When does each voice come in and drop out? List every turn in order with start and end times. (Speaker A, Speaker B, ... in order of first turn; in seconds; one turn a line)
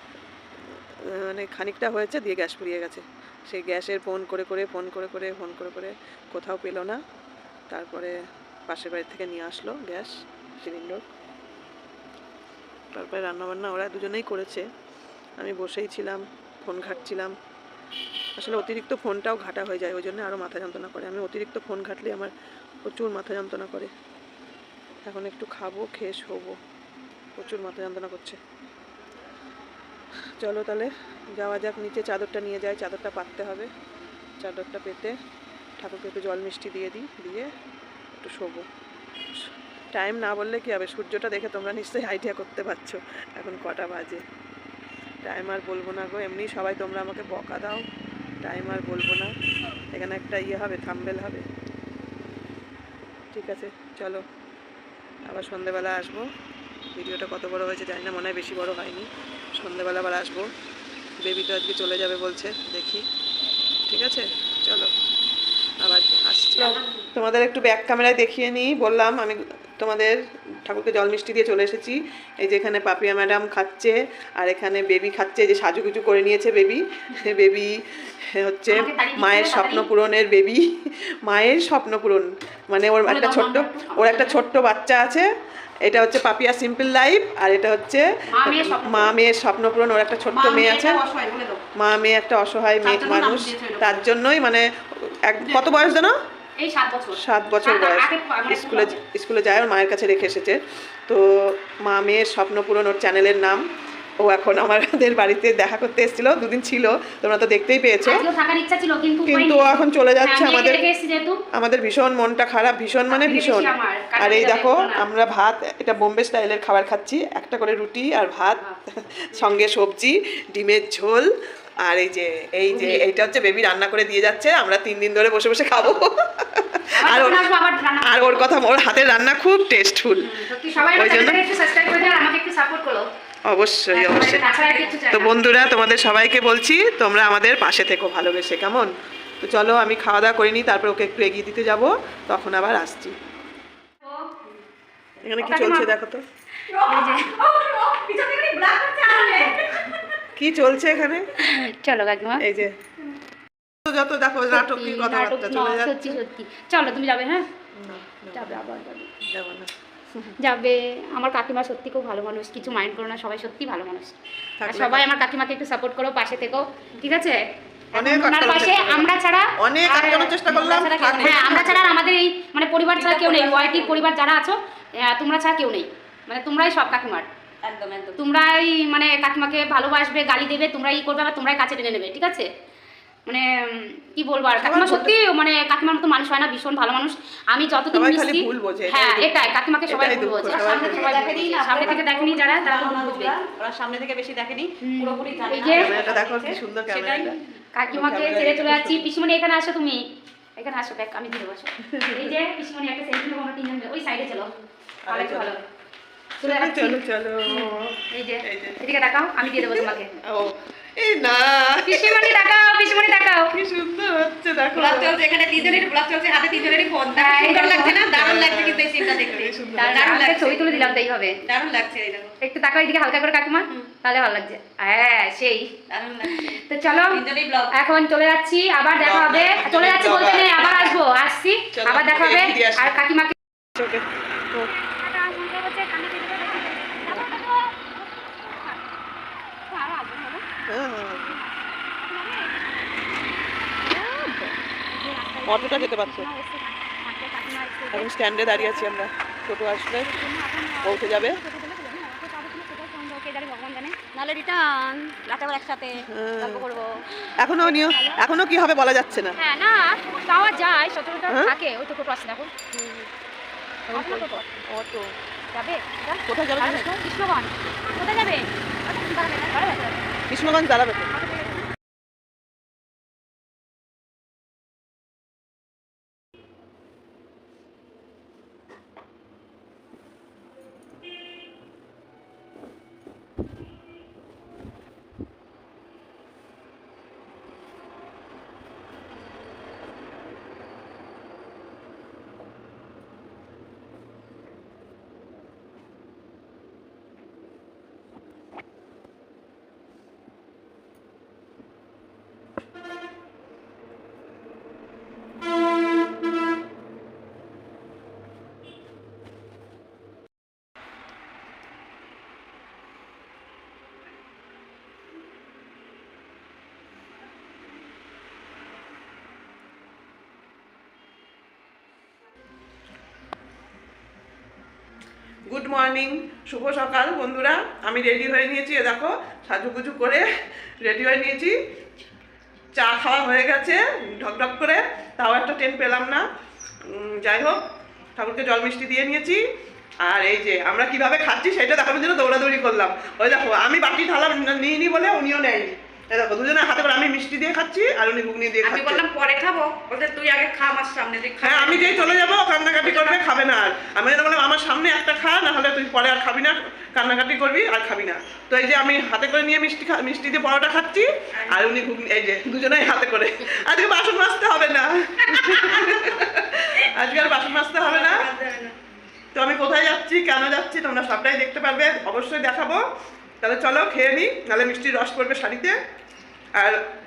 Speaker A: 0.7-7.0
Speaker A: 7.7-8.1
Speaker A: 8.7-11.0
Speaker A: 12.9-14.7
Speaker A: 15.4-17.3
Speaker A: 18.4-22.3
Speaker A: 22.8-23.9
Speaker A: 25.0-26.6
Speaker A: 27.4-28.4
Speaker A: 30.4-33.7
Speaker A: 34.4-35.1
Speaker A: 35.8-37.5
Speaker A: 38.1-38.7
Speaker A: 39.4-44.2
Speaker A: 45.2-47.9
Speaker A: 48.4-49.3
Speaker A: 49.9-51.5
Speaker A: 53.3-54.2
Speaker A: 55.2-56.3
Speaker A: 56.9-60.5
Speaker A: 61.2-63.1
Speaker A: 63.9-64.9
Speaker A: 65.8-85.3
Speaker B: 78.7-79.9
Speaker B: 83.0-84.4
Speaker A: 85.8-91.0
Speaker B: 88.3-89.1
Speaker C: 90.3-91.7
Speaker A: 91.7-96.1
Speaker C: 92.8-94.0
Speaker C: 95.4-95.8
Speaker B: 96.6-99.0
Speaker A: 97.2-103.6
Speaker A: 104.2-108.2
Speaker B: 108.0-111.4
Speaker A: 109.3-110.8
Speaker A: 111.5-121.3
Speaker B: 113.1-115.1
Speaker A: 121.8-127.5
Speaker B: 122.7-123.0
Speaker B: 127.0-128.5
Speaker A: 128.0-131.4
Speaker B: 130.2-133.1
Speaker A: 133.4-134.4
Speaker B: 133.9-135.4
Speaker C: 134.2-135.0
Speaker A: 135.1-143.2
Speaker B: 144.0-144.4
Speaker A: 145.2-146.2
Speaker B: 145.4-145.9
Speaker B: 146.7-147.3
Speaker C: 146.7-150.0
Speaker A: 150.3-151.3
Speaker B: 151.4-152.4
Speaker A: 152.4-152.8
Speaker A: 153.8-156.2
Speaker B: 154.5-157.5
Speaker A: 157.7-158.6
Speaker B: 158.3-159.1
Speaker A: 159.2-160.3
Speaker B: 160.4-170.4
Speaker A: 164.6-165.1
Speaker A: 167.9-171.9
Speaker C: 170.4-171.9
Speaker B: 171.2-177.3
Speaker C: 172.9-174.0
Speaker C: 177.6-178.2
Speaker B: 178.2-182.5
Speaker B: 183.3-193.3
Speaker A: 184.6-185.1
Speaker A: 187.9-191.9
Speaker C: 190.5-197.4
Speaker B: 194.8-196.0
Speaker A: 195.7-197.4
Speaker B: 197.7-200.0
Speaker A: 197.9-199.1
Speaker B: 200.6-204.5
Speaker A: 201.8-202.3
Speaker A: 205.1-205.6
Speaker B: 205.1-205.6
Speaker B: 206.4-210.1
Speaker A: 206.4-208.8
Speaker A: 209.4-215.2
Speaker B: 211.8-213.6
Speaker C: 214.7-222.3
Speaker B: 215.6-215.8
Speaker B: 217.1-218.0
Speaker A: 217.6-220.2
Speaker B: 219.8-221.4
Speaker B: 222.4-225.8
Speaker C: 225.9-227.8
Speaker B: 226.4-233.3
Speaker A: 228.9-230.9
Speaker C: 230.4-230.9
Speaker A: 231.7-232.9
Speaker A: 233.8-234.7
Speaker B: 234.5-238.9
Speaker B: 239.7-240.4
Speaker A: 240.7-241.4
Speaker B: 241.2-243.0
Speaker B: 243.8-244.1
Speaker A: 243.9-244.5
Speaker B: 244.9-248.9
Speaker A: 245.5-246.3
Speaker A: 247.9-250.2
Speaker B: 250.0-254.2
Speaker A: 250.8-251.4
Speaker C: 254.1-256.8
Speaker A: 256.1-256.6
Speaker B: 256.5-256.9
Speaker A: 257.4-259.4
Speaker B: 257.7-258.1
Speaker B: 259.4-262.5
Speaker A: 262.7-263.1
Speaker A: 263.9-265.1
Speaker B: 263.9-264.6
Speaker B: 265.5-270.0
Speaker A: 266.2-267.0
Speaker C: 268.9-269.6
Speaker A: 270.3-271.1
Speaker B: 271.1-271.6
Speaker A: 325.5-330.3
Speaker A: 330.8-331.6
Speaker A: 332.7-336.2
Speaker A: 336.8-337.6
Speaker A: 338.1-339.4
Speaker A: 340.0-349.0
Speaker C: 348.6-353.2
Speaker A: 351.4-368.3
Speaker C: 361.3-361.8
Speaker C: 365.2-366.1
Speaker C: 367.5-368.8
Speaker A: 369.3-372.8
Speaker A: 373.4-375.8
Speaker A: 376.5-376.8